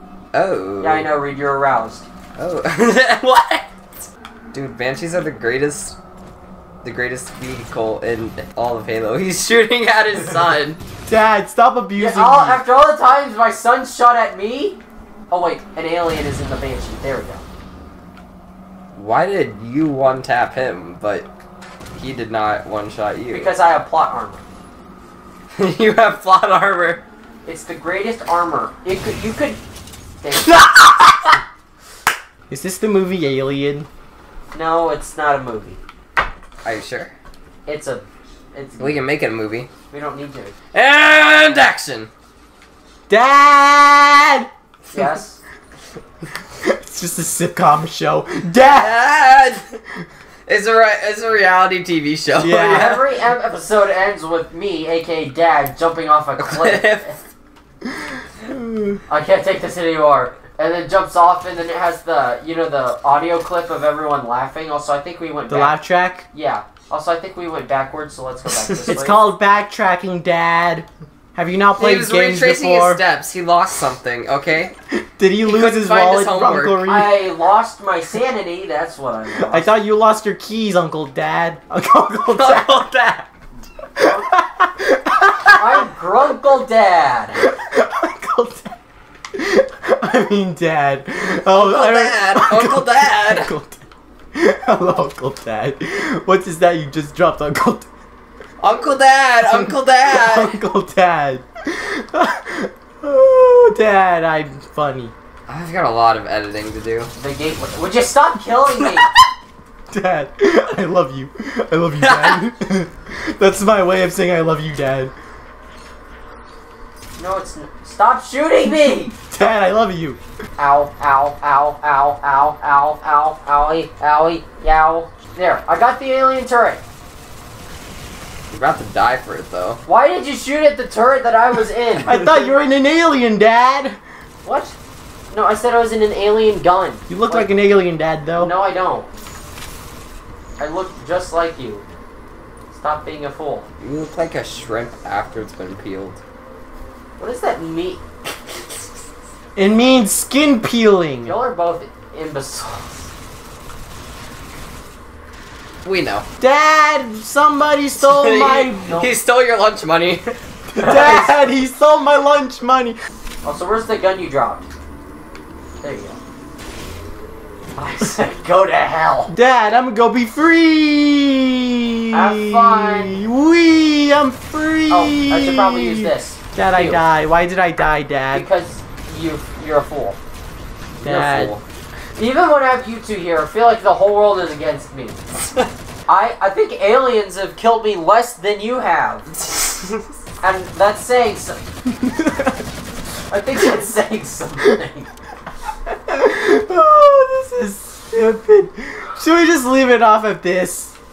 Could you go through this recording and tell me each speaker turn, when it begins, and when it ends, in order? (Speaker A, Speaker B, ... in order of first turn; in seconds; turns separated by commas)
Speaker A: 0.3-1.1, Speaker B: 0.8-2.0, Speaker A: 2.4-6.0, Speaker A: 6.8-10.8, Speaker C: 11.1-12.6, Speaker B: 12.0-17.4, Speaker A: 18.9-21.3, Speaker A: 21.9-23.5, Speaker B: 23.3-24.5, Speaker A: 25.6-27.0, Speaker B: 27.4-29.6, Speaker B: 30.2-30.6, Speaker C: 32.5-33.9, Speaker B: 34.5-35.8, Speaker A: 36.6-37.1, Speaker B: 37.6-39.0, Speaker A: 38.8-39.7, Speaker B: 39.9-40.5, Speaker A: 40.7-42.1, Speaker C: 43.1-44.5, Speaker B: 44.9-45.4, Speaker C: 46.6-49.0, Speaker A: 48.6-49.8, Speaker A: 50.5-53.1, Speaker C: 52.4-53.0, Speaker B: 52.6-57.1, Speaker A: 56.4-57.2, Speaker C: 58.5-59.0, Speaker B: 59.1-65.8, Speaker C: 65.5-66.3, Speaker B: 66.3-69.2, Speaker C: 68.8-73.0, Speaker A: 71.8-74.7, Speaker C: 74.9-77.2, Speaker A: 75.4-76.8, Speaker B: 76.8-79.7, Speaker C: 79.4-82.8, Speaker A: 82.3-83.3, Speaker C: 84.0-85.8, Speaker B: 84.0-84.3, Speaker B: 85.5-87.4, Speaker C: 87.4-88.8, Speaker C: 89.3-97.9, Speaker A: 91.5-93.5, Speaker A: 98.6-100.5, Speaker C: 99.4-105.1, Speaker A: 105.5-107.1, Speaker B: 107.2-109.1, Speaker C: 109.9-115.1, Speaker A: 112.0-112.4, Speaker B: 117.2-119.1, Speaker C: 119.3-120.2, Speaker B: 120.6-126.8, Speaker A: 128.5-129.8, Speaker B: 129.8-132.2, Speaker C: 132.0-134.0, Speaker B: 134.4-134.7, Speaker B: 135.3-137.5, Speaker C: 137.1-138.5, Speaker B: 138.4-139.1, Speaker B: 140.6-141.8, Speaker B: 142.7-143.7, Speaker A: 143.8-146.2, Speaker B: 147.2-148.3, Speaker C: 149.6-151.3, Speaker B: 151.3-153.1, Speaker A: 155.8-156.2, Speaker C: 156.4-159.0, Speaker A: 158.0-160.3, Speaker C: 160.7-163.0, Speaker B: 160.8-161.2, Speaker B: 163.4-164.6, Speaker B: 165.8-166.2, Speaker B: 167.8-169.3, Speaker C: 169.3-178.5, Speaker B: 172.1-173.2, Speaker B: 174.9-177.0, Speaker B: 178.3-180.2, Speaker A: 181.0-181.6, Speaker C: 181.0-181.5, Speaker B: 182.2-185.2, Speaker B: 186.1-189.3, Speaker A: 189.7-190.0, Speaker B: 190.4-191.6, Speaker C: 192.2-192.4, Speaker B: 193.3-195.1, Speaker C: 196.1-200.9